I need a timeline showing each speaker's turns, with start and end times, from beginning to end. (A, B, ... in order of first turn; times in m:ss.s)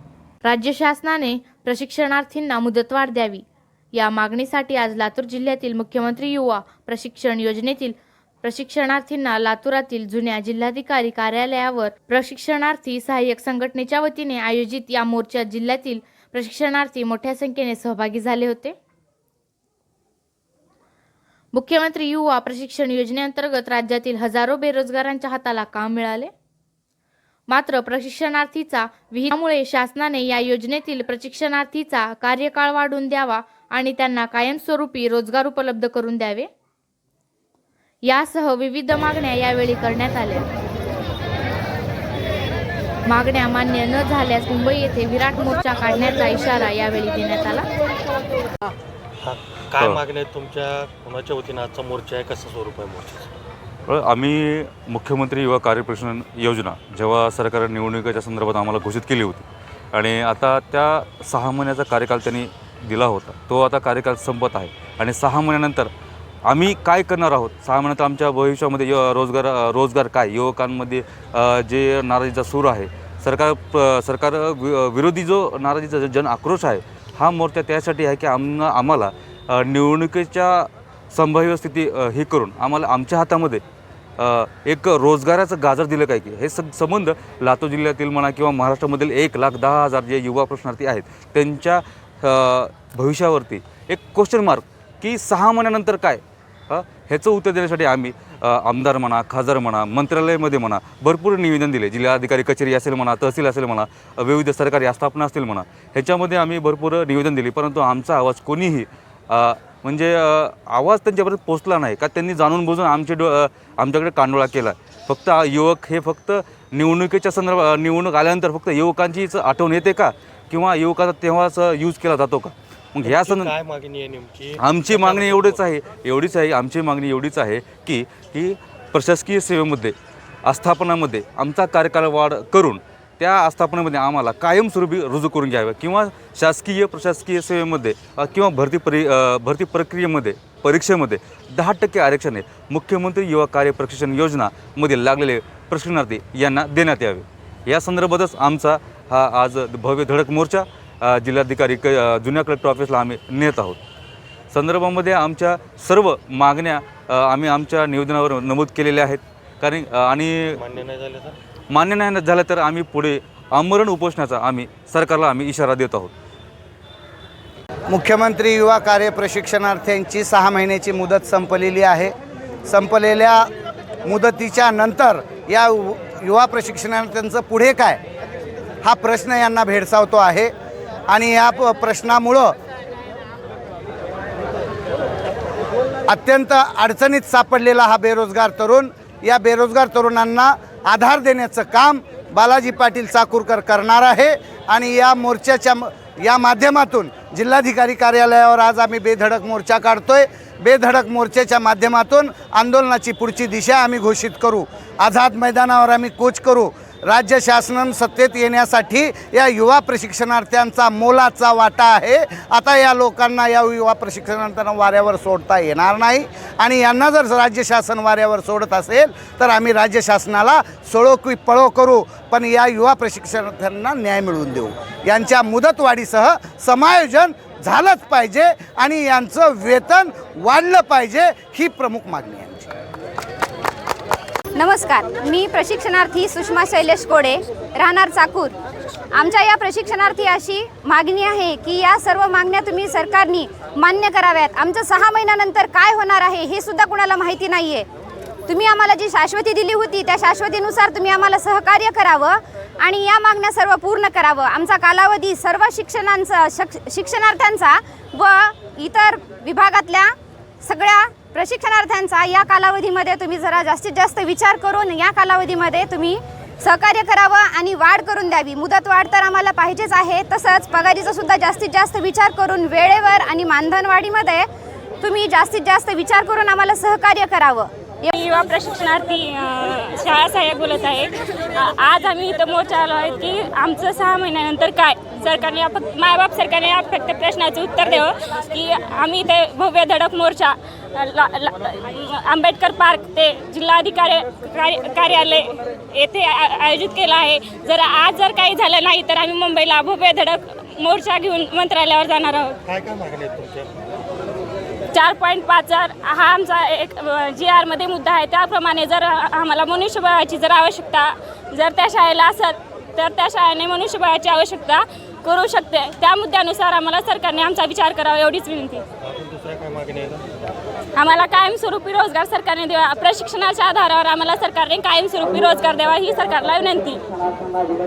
0:00.4-0:03.4 A
0:04.0-0:18.8 A
0:21.5-0:26.3 A
0:27.5-0:36.5 A
0:38.0-0:40.5 A
0:43.1-0:47.7 A
0:49.2-0:53.4 B
0:53.9-1:05.9 C
1:06.4-1:23.6 C
1:24.2-2:03.6 C
2:03.0-2:05.5 B
2:04.6-2:33.8 C
2:34.5-2:40.6 C
2:40.6-2:41.4 B
2:41.7-2:46.1 C
2:47.9-2:52.1 D
2:52.7-2:53.5 D
2:54.0-2:58.0 D
2:58.8-3:00.5 D
3:01.1-3:02.5 D
3:06.1-3:52.7 D
3:54.5-3:58.6 E
3:59.1-4:07.9 E
4:08.5-4:34.5 E
4:35.0-4:37.7 E
4:38.1-5:02.6 F
5:02.7-5:03.7 B
5:04.9-5:18.8 F
5:19.0-5:20.2 B
5:21.0-5:27.0 F